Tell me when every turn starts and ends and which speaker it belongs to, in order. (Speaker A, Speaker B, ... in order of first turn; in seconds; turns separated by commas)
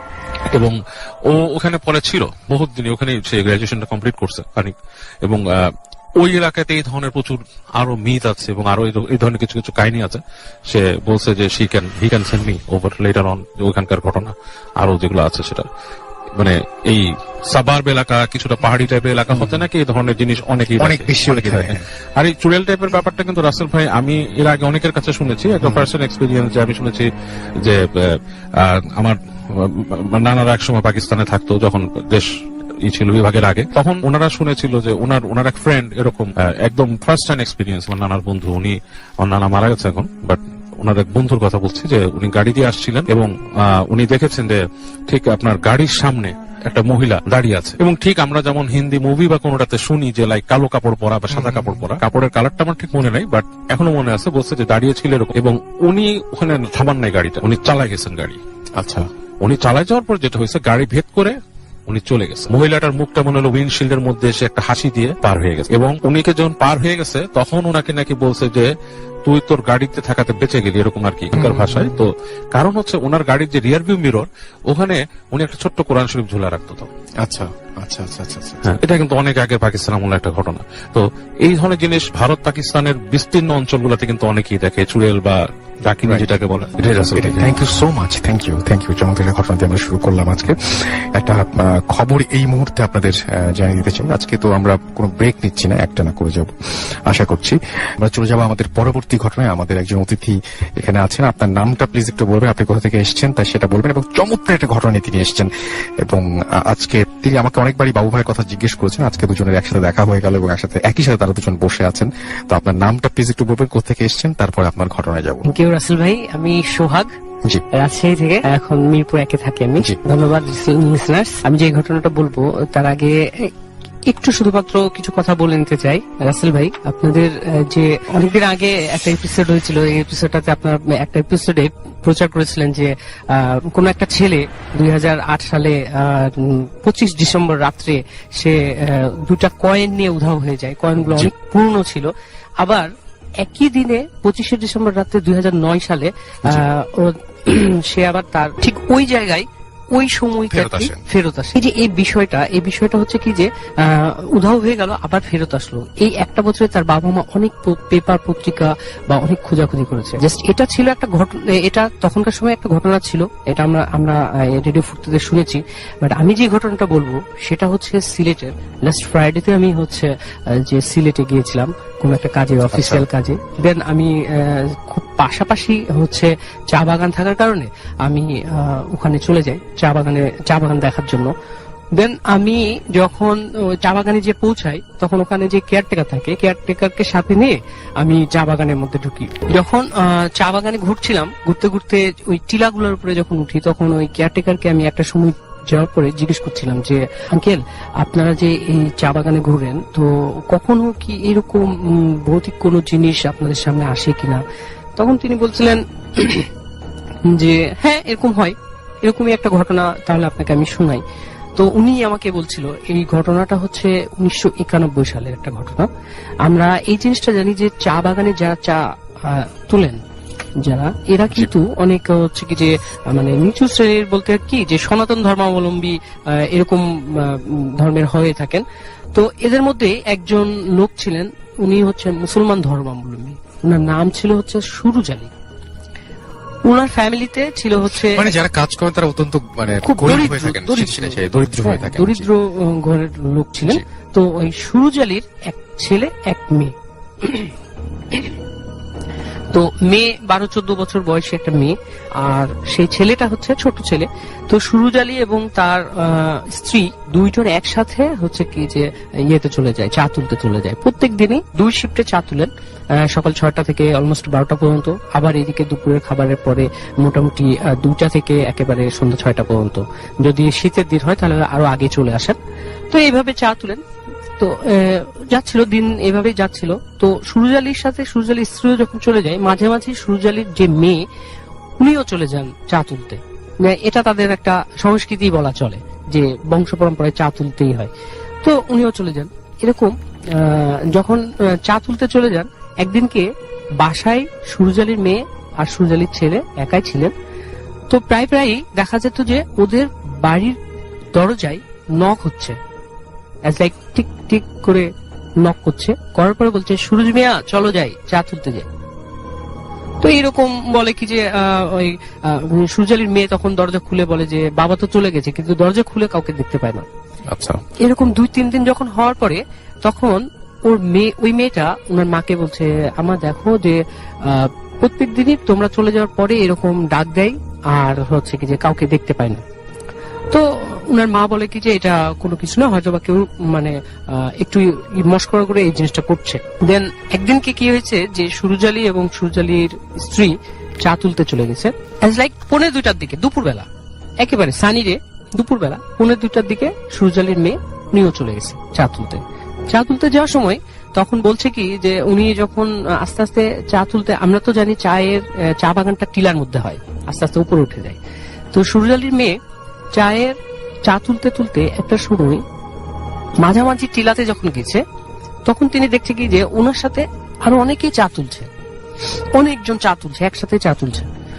Speaker A: 0.5-15.7, Speaker A: 16.3-27.1, Speaker B: 19.3-19.6, Speaker B: 20.8-21.8, Speaker B: 25.6-25.9, Speaker A: 27.6-32.3, Speaker A: 32.8-58.4, Speaker B: 51.3-51.9, Speaker B: 58.8-59.1, Speaker A: 59.4-68.7, Speaker A: 69.2-76.9, Speaker B: 71.3-72.0, Speaker B: 77.2-78.8, Speaker A: 78.6-87.5, Speaker B: 86.0-86.3, Speaker B: 87.1-105.5, Speaker B: 106.0-115.5, Speaker C: 115.4-117.1, Speaker C: 117.7-123.5, Speaker C: 124.1-181.3, Speaker B: 141.1-141.3, Speaker B: 150.5-151.0, Speaker B: 172.7-173.1, Speaker C: 181.9-204.4, Speaker C: 205.0-206.5, Speaker C: 207.3-211.0, Speaker C: 211.6-215.9, Speaker C: 216.4-220.0, Speaker C: 220.6-228.6, Speaker C: 229.1-235.3, Speaker C: 236.7-238.3, Speaker B: 238.0-242.3, Speaker C: 239.8-247.5, Speaker C: 249.5-272.4, Speaker C: 272.9-273.8, Speaker C: 274.4-281.0, Speaker C: 281.8-287.9, Speaker C: 288.4-293.3, Speaker C: 293.8-297.1, Speaker C: 297.9-300.6, Speaker C: 301.1-302.6, Speaker C: 303.4-304.9, Speaker C: 305.4-308.7, Speaker C: 310.0-316.9, Speaker B: 317.3-317.6, Speaker C: 317.8-329.4, Speaker C: 330.3-343.7, Speaker C: 344.2-358.0, Speaker C: 358.5-359.4, Speaker C: 359.9-362.4, Speaker C: 363.4-364.8, Speaker C: 365.4-368.5, Speaker C: 369.3-371.1